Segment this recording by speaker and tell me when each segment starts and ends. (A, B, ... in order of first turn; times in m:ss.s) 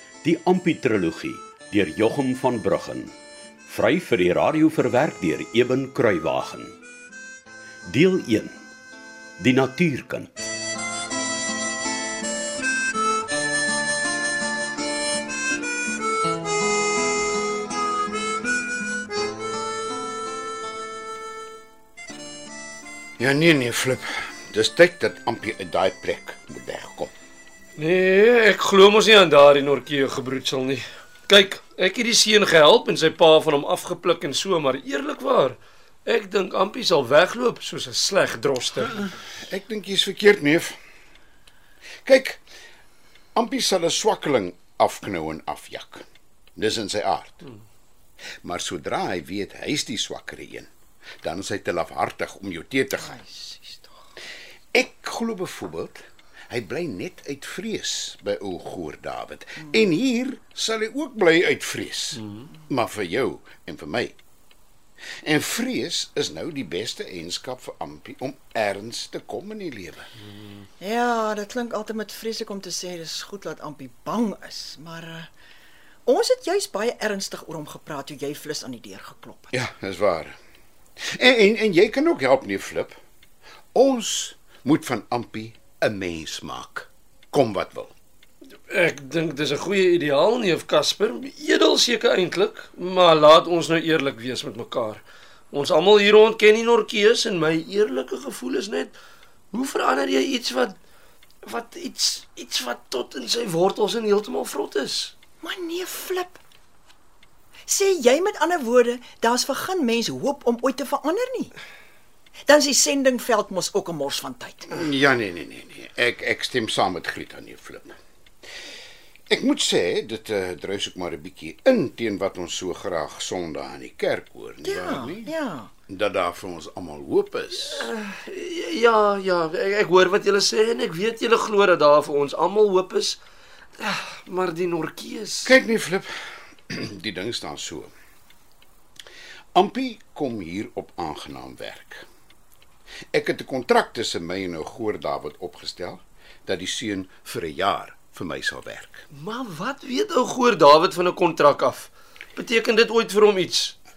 0:00.2-0:03.1 A
0:03.7-0:06.8 A
0:07.9-0:08.6 A
0:09.4-0:10.3 A
0:23.2-0:27.1 B
0:27.8-0:39.1 C
0:39.1-0:40.8 B
0:42.1-0:42.4 B
0:43.4-0:46.0 B
0:46.6-0:47.4 B
0:48.4-0:50.7 B
0:51.2-0:53.2 B
0:53.0-0:53.9 D
0:54.7-1:04.2 B
1:05.2-1:10.1 B
1:10.8-1:15.3 D
1:16.1-1:19.5 D
1:19.5-1:20.4 B
1:21.0-1:23.0 B
1:23.7-1:27.9 B
1:28.7-1:39.0 C
1:39.5-1:40.8 C
1:41.4-1:45.1 C
1:45.4-1:46.4 D
1:47.7-1:51.5 D
1:52.5-1:54.8 D
1:54.7-1:58.0 B
1:59.3-2:05.3 B
2:04.6-2:05.7 D
2:05.9-2:07.9 B
2:07.6-2:13.2 C
2:13.8-2:15.5 C
2:15.4-2:17.9 B
2:19.5-2:22.1 B
2:23.1-2:29.0 B
2:29.1-2:33.8 C